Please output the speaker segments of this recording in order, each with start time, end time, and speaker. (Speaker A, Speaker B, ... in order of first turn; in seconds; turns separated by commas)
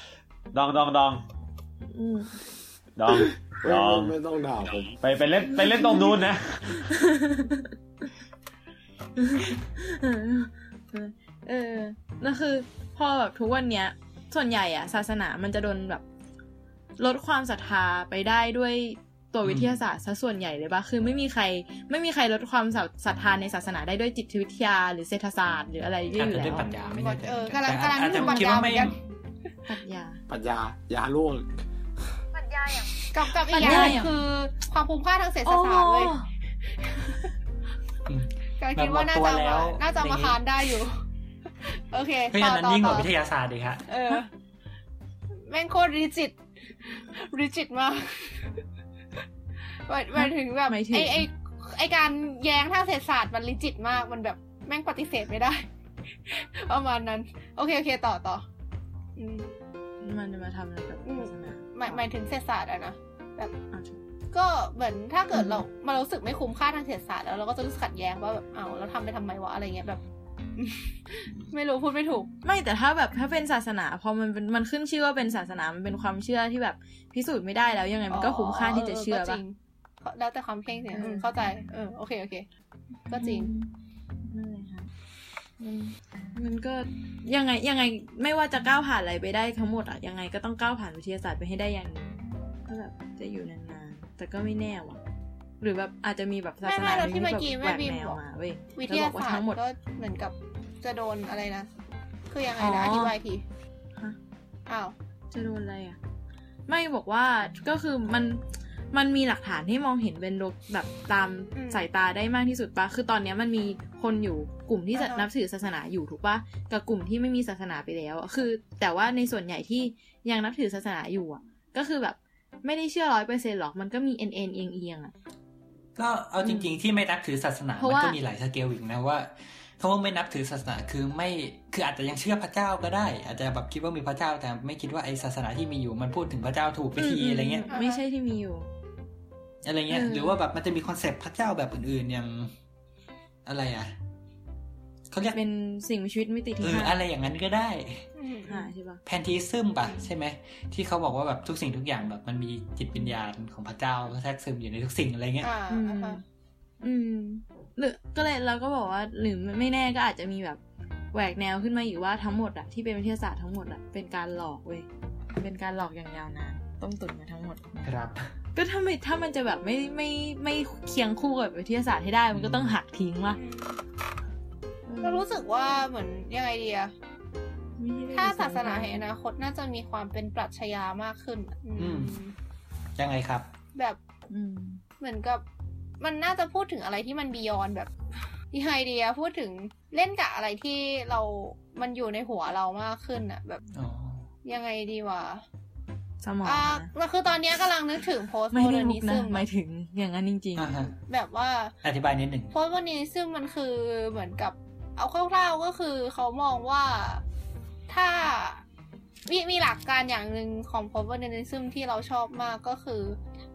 Speaker A: 0.5-1.2, Speaker B: 1.9-2.4, Speaker A: 3.0-4.1, Speaker C: 3.6-5.0, Speaker A: 5.0-6.8, Speaker B: 6.7-7.7, Speaker B: 9.2-16.0, Speaker B: 17.0-26.7, Speaker D: 19.4-19.8, Speaker D: 26.1-29.0, Speaker E: 26.6-28.9, Speaker B: 28.1-29.0, Speaker B: 29.7-30.2, Speaker C: 30.3-31.6, Speaker E: 33.1-36.1, Speaker B: 33.5-34.1, Speaker D: 33.6-34.0, Speaker B: 35.4-36.3, Speaker E: 36.8-37.3, Speaker D: 38.1-40.4, Speaker E: 38.6-41.0, Speaker E: 41.6-43.1, Speaker D: 42.3-43.9, Speaker E: 43.9-44.3, Speaker E: 45.3-48.5, Speaker E: 49.9-55.7, Speaker B: 50.1-51.3, Speaker E: 56.2-58.5, Speaker E: 59.2-59.5, Speaker B: 60.0-62.0, Speaker E: 61.1-63.5, Speaker B: 63.7-64.0, Speaker E: 64.3-70.0, Speaker B: 65.3-65.6, Speaker E: 70.6-72.3, Speaker B: 72.4-79.4, Speaker E: 78.1-82.5, Speaker B: 80.9-81.3, Speaker E: 83.1-83.5, Speaker B: 83.1-83.7, Speaker B: 84.3-84.9, Speaker B: 85.6-95.0, Speaker B: 95.6-99.6, Speaker E: 96.6-98.2, Speaker E: 98.8-101.7, Speaker E: 102.3-103.4, Speaker B: 102.6-103.2, Speaker E: 104.7-105.0, Speaker B: 105.3-106.0, Speaker B: 106.7-125.1, Speaker E: 111.5-111.8, Speaker E: 114.9-115.3, Speaker D: 126.0-137.7, Speaker B: 126.4-126.7, Speaker B: 127.8-128.2, Speaker B: 137.0-138.7, Speaker E: 137.7-138.0, Speaker D: 139.6-142.5, Speaker B: 139.9-140.4, Speaker D: 143.5-143.9, Speaker D: 145.1-145.4, Speaker B: 145.3-147.0, Speaker D: 146.6-148.1, Speaker E: 148.2-148.7, Speaker B: 148.5-149.0, Speaker D: 149.1-155.5, Speaker E: 155.4-156.2, Speaker B: 155.7-156.2, Speaker B: 156.8-160.6, Speaker B: 161.1-167.9, Speaker D: 167.8-168.3, Speaker B: 168.6-173.4, Speaker D: 172.3-172.8, Speaker E: 173.3-173.8, Speaker B: 174.9-175.2, Speaker E: 175.0-176.9, Speaker B: 177.8-179.0, Speaker E: 178.1-182.3, Speaker D: 181.8-182.2, Speaker D: 183.0-183.5, Speaker B: 184.3-184.8, Speaker E: 185.0-185.4, Speaker E: 186.0-187.9, Speaker E: 188.5-193.6, Speaker D: 193.7-194.3, Speaker E: 194.4-195.4, Speaker B: 196.2-196.9, Speaker E: 196.4-199.4, Speaker B: 198.5-200.7, Speaker D: 200.6-200.9, Speaker E: 201.1-201.8, Speaker D: 201.8-202.5, Speaker E: 202.5-207.2, Speaker E: 207.9-208.6, Speaker E: 209.3-213.2